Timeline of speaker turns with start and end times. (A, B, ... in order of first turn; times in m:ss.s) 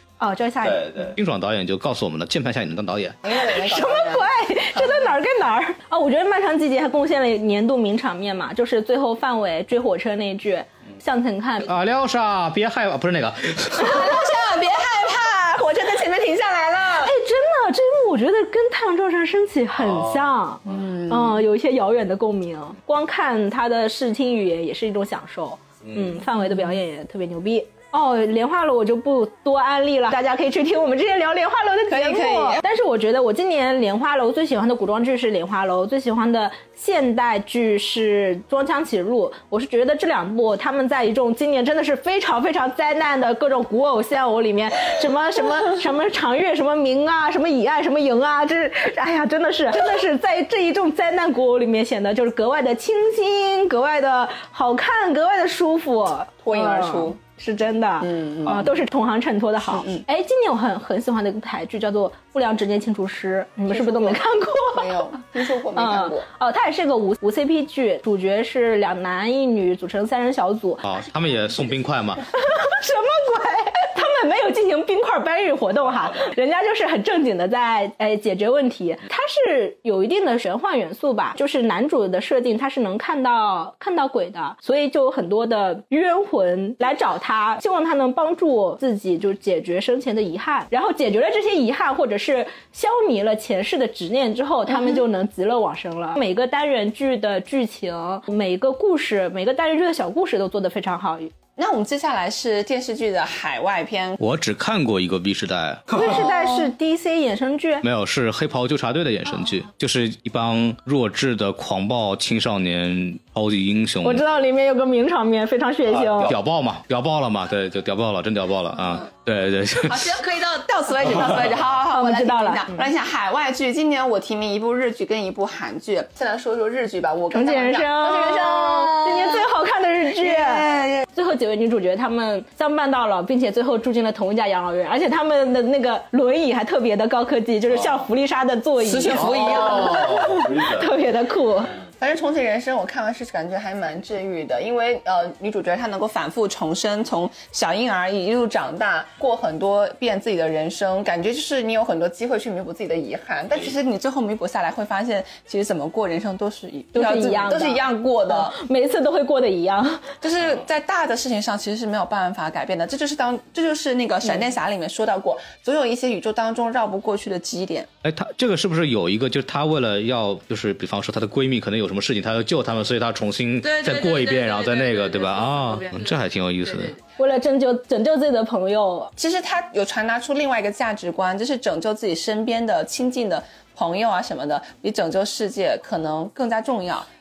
0:00.2-0:01.1 A
0:00.6-0:03.2 B
0:03.2-0:05.1 C
0:03.3-0:11.7 A
0:11.6-0:14.1 B
0:13.8-0:17.1 C
0:17.0-1:05.0 A
0:19.8-0:20.2 B
0:20.6-0:21.3 C
0:25.8-0:26.1 B
0:31.9-0:32.6 C
0:56.4-0:57.2 C
0:58.0-0:58.6 C
0:59.7-1:00.0 C
1:03.7-1:06.2 C
1:05.7-1:10.8 A
1:10.8-1:12.2 B
1:12.3-1:41.3 A
1:41.6-1:44.2 C
1:44.2-1:46.2 B
1:45.9-1:47.8 A
1:46.0-1:46.7 C
1:47.8-1:54.2 B
1:54.0-1:56.3 A
1:56.0-2:00.2 B
1:59.8-2:09.4 C
2:01.9-2:02.8 A
2:07.3-2:21.7 A
2:10.2-2:11.1 C
2:18.8-2:20.3 C
2:19.2-2:20.9 B
2:22.0-2:38.6 C
2:36.9-2:40.1 A
2:40.2-2:47.9 C
2:48.0-2:56.9 B
2:57.2-2:59.1 A
2:59.2-3:07.1 C